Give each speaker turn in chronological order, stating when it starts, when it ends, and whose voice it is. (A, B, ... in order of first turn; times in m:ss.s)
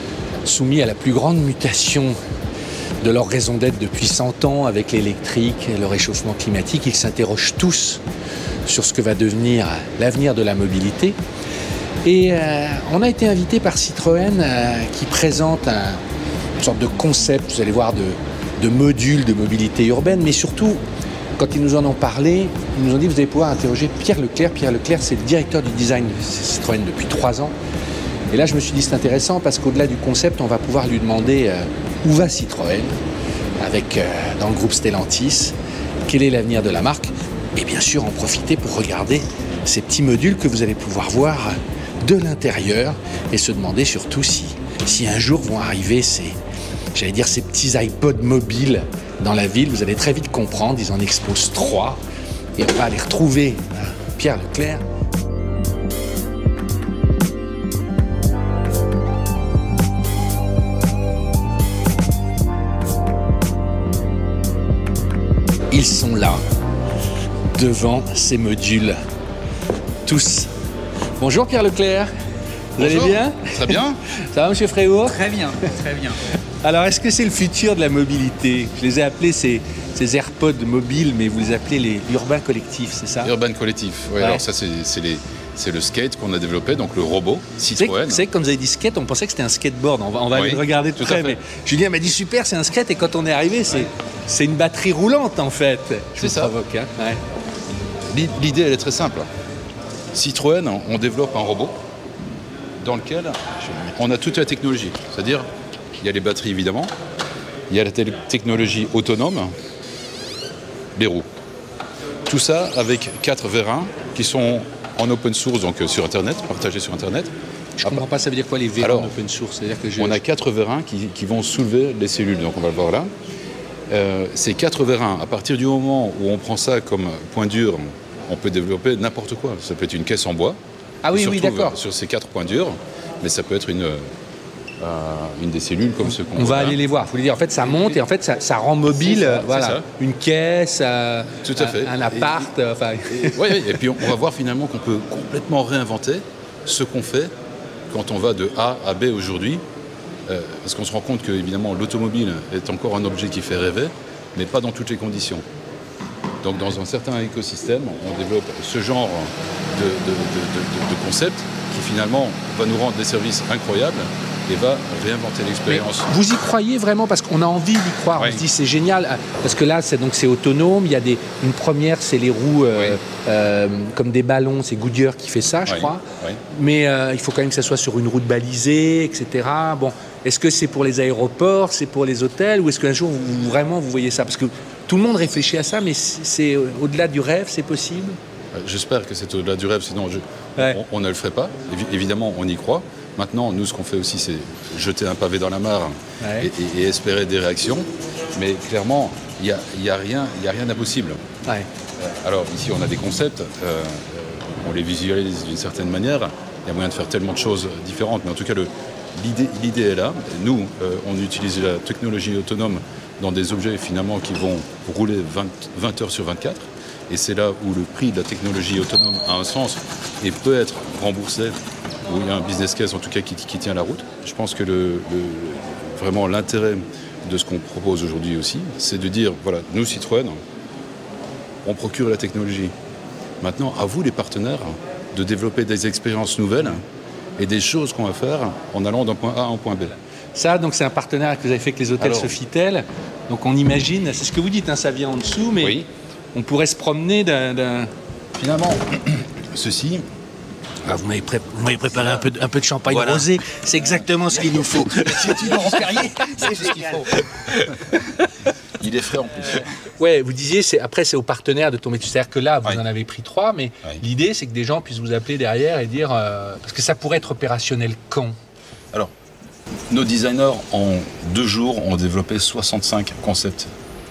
0:00.4-0:02.2 A
0:03.0-0:08.0 A
0:08.7-0:11.2 A
0:12.0-0:16.0 A
0:16.6-0:20.8 A
0:21.4-0:27.5 A
0:28.3-0:33.0 A
0:33.6-0:35.5 A
0:36.1-0:46.4 A
0:46.9-0:52.0 A
0:52.6-0:54.8 A
1:05.7-1:06.4 A
1:07.5-1:09.0 A
1:10.0-1:10.5 A
1:11.2-1:12.1 A
1:12.8-1:15.3 A
1:12.8-1:14.0 B
1:15.1-1:16.2 C
1:16.6-1:23.3 A
1:23.2-1:28.3 B
1:24.2-1:24.4 A
1:27.8-1:37.2 A
1:30.3-1:31.4 B
1:36.2-1:36.6 B
1:38.1-1:39.3 B
1:40.1-1:41.8 B
1:42.8-1:45.5 B
1:46.0-1:46.9 B
1:47.7-1:49.5 B
1:51.0-1:51.3 B
1:52.3-1:58.0 B
1:57.8-2:00.2 A
1:58.8-1:59.2 B
2:00.0-2:03.1 B
2:03.9-2:10.6 B
2:11.0-2:11.8 A
2:11.1-2:14.1 B
2:14.8-2:16.8 B
2:16.3-2:23.6 A
2:17.6-2:18.0 B
2:18.9-2:19.9 B
2:21.4-2:22.5 B
2:23.1-2:27.3 B
2:27.9-2:29.6 B
2:30.3-2:35.4 B
2:36.4-2:46.1 B
2:45.7-3:08.2 A
2:48.2-2:48.4 B
2:52.7-2:53.0 B
2:55.6-2:56.4 B
3:08.5-3:21.2 B
3:16.2-3:16.5 A
3:22.0-3:50.4 B
3:51.6-3:52.7 B
3:53.4-3:56.8 B
3:57.4-4:00.0 B
4:00.4-4:05.8 A
4:02.0-4:02.4 B
4:05.6-4:05.9 B
4:06.3-4:07.9 A
4:08.4-4:10.1 B
4:10.8-4:16.7 A
4:12.9-4:13.3 B
4:14.8-4:15.5 B
4:15.1-4:17.1 C
4:17.2-4:18.0 B
4:18.8-4:19.7 B
4:19.9-4:28.4 A
4:29.9-4:33.7 B